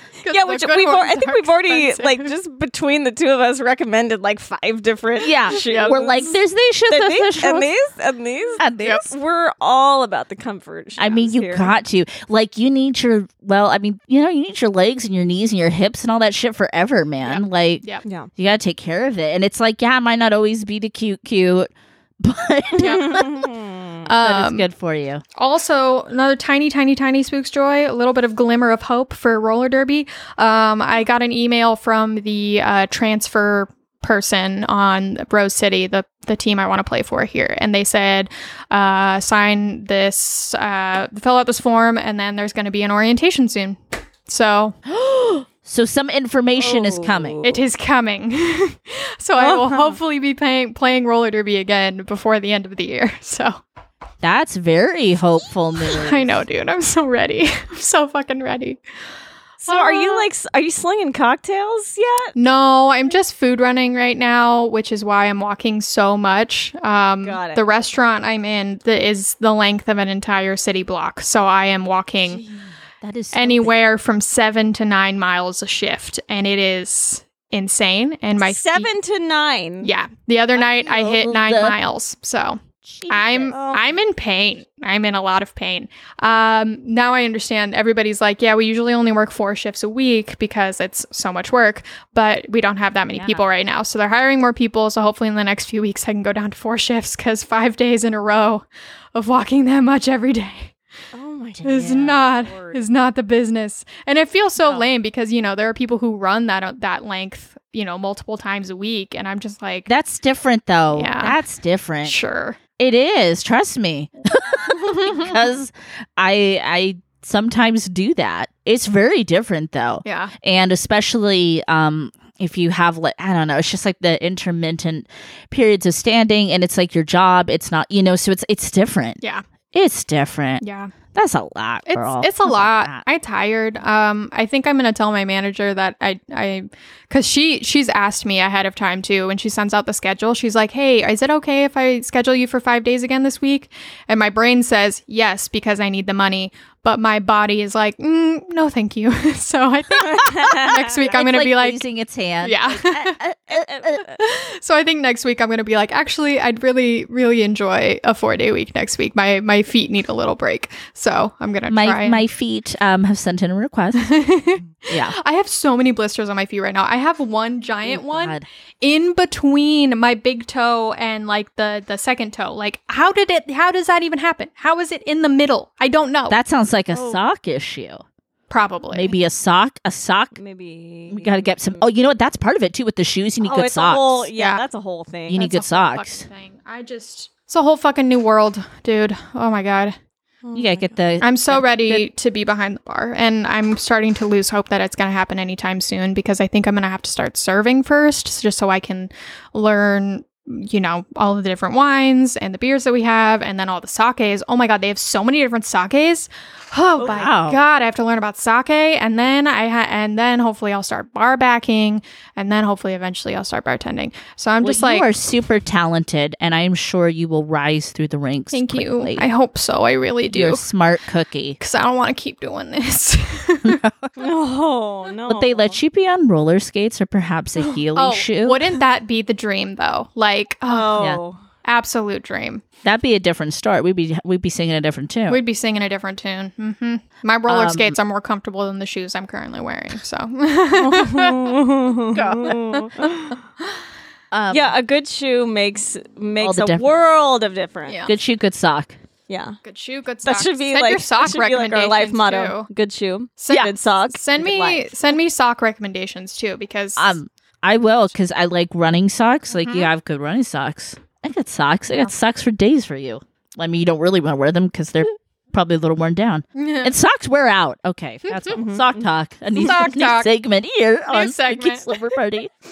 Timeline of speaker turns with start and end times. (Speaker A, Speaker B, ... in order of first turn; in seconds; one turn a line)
Speaker A: 0.2-2.3
Speaker B: 0.3-6.3
Speaker C: 5.2-7.7
Speaker A: 5.5-6.4
Speaker B: 6.9-11.7
Speaker C: 8.6-9.1
Speaker C: 11.0-17.9
Speaker A: 17.2-18.0
Speaker B: 18.1-18.3
Speaker C: 18.4-23.4
Speaker A: 22.8-23.2
Speaker B: 22.8-23.8
Speaker A: 24.1-24.6
Speaker C: 24.2-25.2
Speaker A: 25.4-44.8
Speaker C: 44.9-47.4
Speaker B: 46.6-47.6
Speaker A: 47.4-53.6
Speaker B: 49.4-50.0
Speaker C: 54.2-56.4
Speaker A: 55.9-58.8
Speaker B: 59.6-62.3
Speaker A: 59.6-60.3
Speaker A: 62.4-72.4
Speaker B: 67.2-67.6
Speaker C: 73.0-73.8
Speaker A: 73.3-78.9
Speaker B: 78.4-79.9
Speaker A: 79.8-100.8
Speaker C: 80.6-81.8
Speaker C: 82.8-83.5
Speaker B: 83.5-83.9
Speaker C: 93.1-93.5
Speaker B: 101.1-102.8
Speaker A: 101.6-109.9
Speaker C: 101.7-102.2
Speaker C: 109.9-112.2
Speaker A: 110.9-111.4
Speaker A: 112.0-112.6
Speaker C: 112.8-129.2
Speaker A: 114.7-115.3
Speaker A: 120.0-120.3
Speaker C: 129.7-133.1
Speaker A: 130.6-130.9
Speaker A: 131.9-151.8
Speaker B: 150.1-150.9
Speaker C: 150.7-154.0
Speaker A: 152.4-153.2
Speaker B: 153.5-154.2
Speaker A: 154.2-162.2
Speaker C: 161.7-164.2
Speaker A: 163.9-176.4
Speaker C: 164.9-165.1
Speaker C: 167.9-168.4
Speaker C: 176.3-178.0
Speaker B: 176.9-177.2
Speaker A: 178.5-179.1
Speaker C: 178.9-180.3
Speaker B: 180.3-181.9
Speaker C: 181.1-184.3
Speaker B: 183.4-185.4
Speaker A: 184.4-184.6
Speaker C: 185.3-186.2
Speaker A: 185.3-189.9
Speaker B: 190.4-190.9
Speaker C: 190.5-192.1
Speaker A: 191.2-215.1
Speaker C: 207.1-207.6
Speaker C: 214.6-219.3
Speaker A: 218.5-220.6
Speaker C: 220.3-221.6
Speaker A: 221.6-223.8
Speaker C: 223.6-224.1
Speaker B: 224.2-225.8
Speaker C: 225.3-228.6
Speaker A: 227.9-231.1
Speaker B: 230.7-231.4
Speaker A: 231.6-232.6
Speaker C: 232.8-235.4
Speaker A: 235.3-241.6
Speaker C: 237.5-237.9
Speaker B: 240.8-243.4
Speaker C: 242.1-242.6
Speaker C: 244.3-244.7
Speaker B: 244.5-248.0
Speaker C: 246.4-246.9
Speaker A: 247.9-248.1
Speaker C: 248.1-249.0
Speaker B: 249.3-249.6
Speaker A: 249.6-252.7
Speaker B: 250.2-254.9
Speaker A: 253.4-257.2
Speaker C: 257.0-272.5
Speaker A: 259.5-259.9
Speaker A: 266.6-266.9
Speaker B: 268.5-268.9
Speaker A: 269.6-270.3
Speaker A: 271.1-271.9